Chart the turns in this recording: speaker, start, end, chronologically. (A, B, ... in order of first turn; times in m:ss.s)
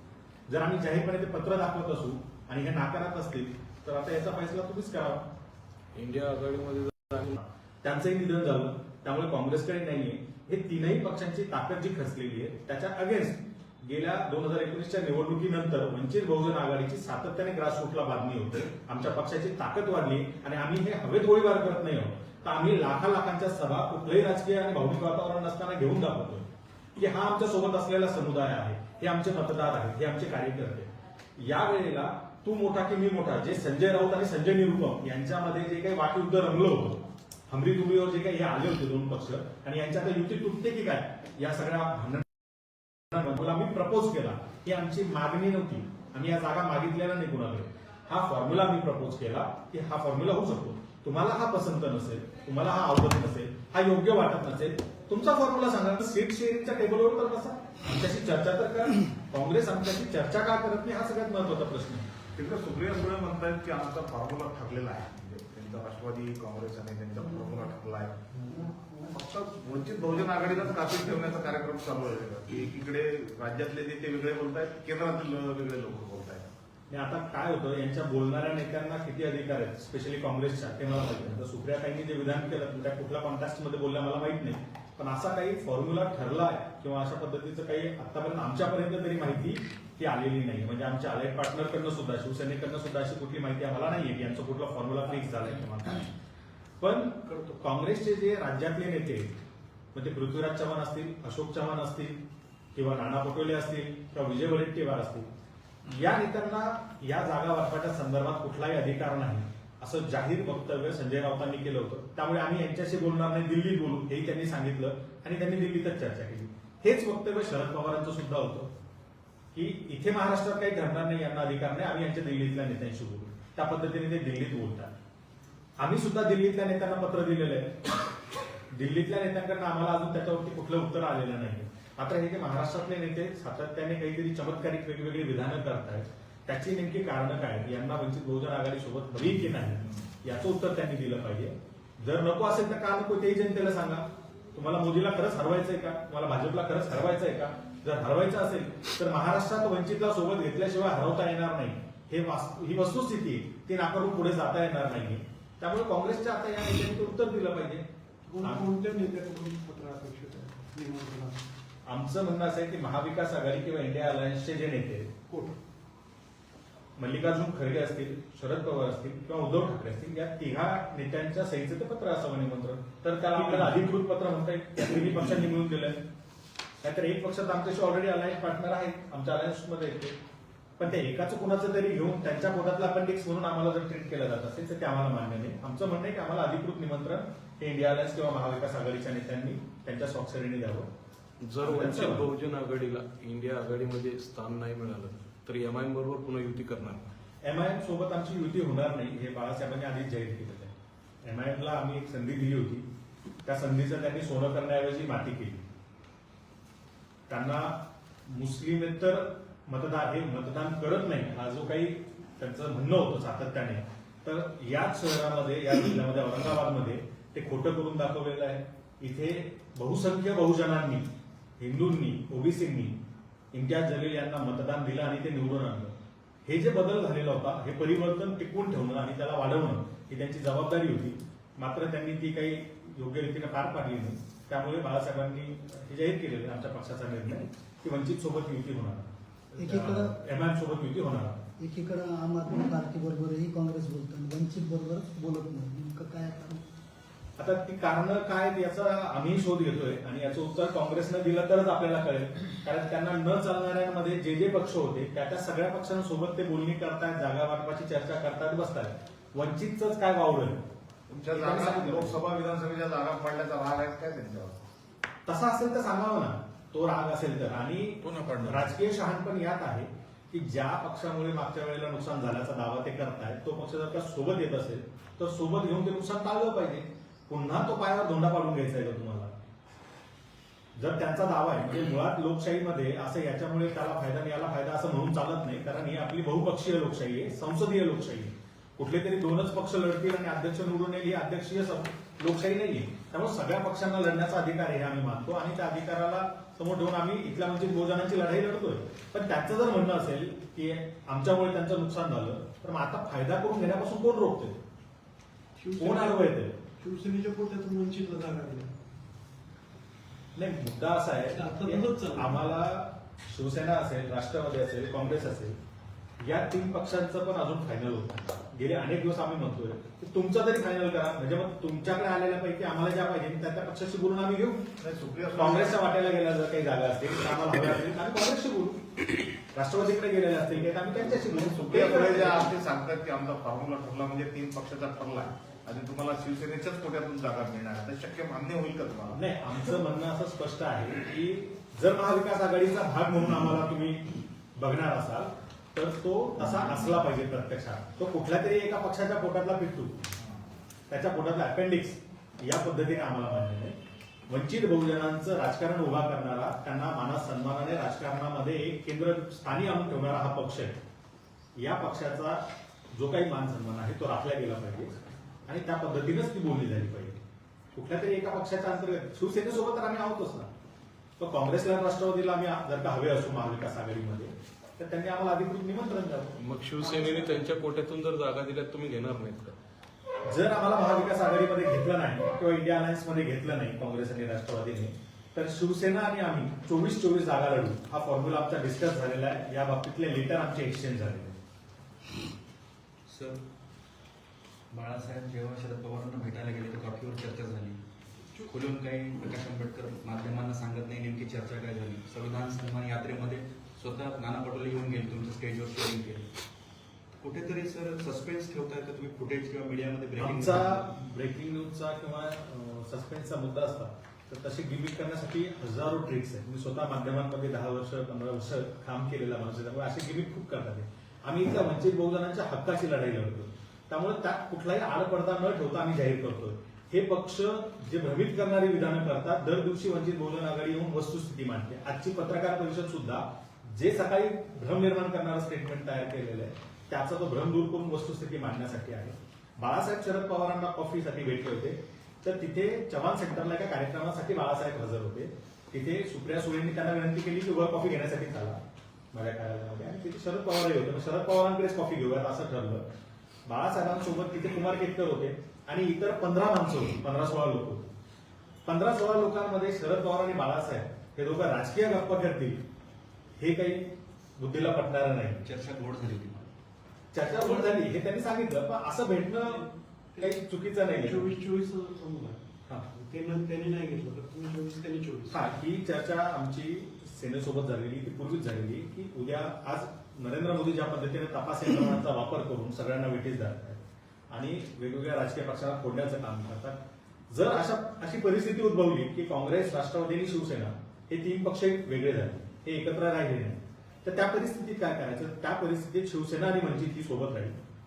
0:00.5-0:05.3 A
0:05.9-0:07.3 B
0:07.2-0:42.4 A
0:43.1-1:02.1 A
1:02.3-1:08.2 C
1:09.1-1:16.5 C
1:16.9-1:36.1 A
1:36.8-1:39.3 A
1:37.3-1:37.6 D
1:39.9-1:42.2 A
1:42.7-1:45.3 A
1:45.9-1:58.7 A
1:59.5-2:04.9 A
2:05.8-2:07.9 A
2:08.7-2:37.8 A
2:38.3-2:41.4 D
2:38.4-2:38.7 A
2:41.9-2:45.1 A
2:45.3-2:45.6 D
2:47.0-2:56.0 A
2:56.8-3:00.2 A
3:00.8-3:10.9 A
3:11.4-3:17.0 B
3:11.6-3:12.3 A
3:17.4-3:20.7 A
3:21.2-3:22.8 A
3:23.4-3:25.6 A
3:27.3-3:43.0 A
3:43.5-3:45.9 A
3:46.4-4:01.4 A
3:59.6-4:00.1 E
4:01.6-4:06.6 E
4:07.4-4:20.7 A
4:21.1-4:24.6 C
4:21.3-4:22.2 A
4:25.2-4:39.3 A
4:28.1-4:28.5 C
4:40.8-5:04.6 A
5:05.6-5:08.7 D
5:05.8-5:06.6 A
5:10.4-5:15.6 A
5:11.4-5:12.4 D
5:16.2-5:24.7 A
5:24.8-5:25.8 C
5:25.3-5:28.8 A
5:29.5-5:32.5 A
5:31.2-5:39.2 C
5:39.1-5:50.0 A
5:50.9-5:53.8 A
5:54.3-6:00.8 A
6:01.6-6:04.9 A
6:05.5-6:07.2 A
6:07.7-6:10.5 A
6:11.2-6:16.3 A
6:16.4-6:19.6 B
6:20.2-6:31.4 A
6:33.1-6:33.4 F
6:34.7-6:37.8 F
6:38.4-6:46.3 F
6:47.2-6:50.8 F
6:50.2-7:28.6 A
7:29.1-7:32.8 A
7:33.4-7:37.9 A
7:38.6-7:42.6 A
7:43.4-7:45.4 A
7:45.4-7:46.5 F
7:47.1-7:49.6 A
7:47.3-7:47.7 D
7:49.5-7:50.4 D
7:50.2-7:51.3 A
7:50.9-7:55.4 D
7:55.3-8:06.8 A
8:07.3-8:17.6 A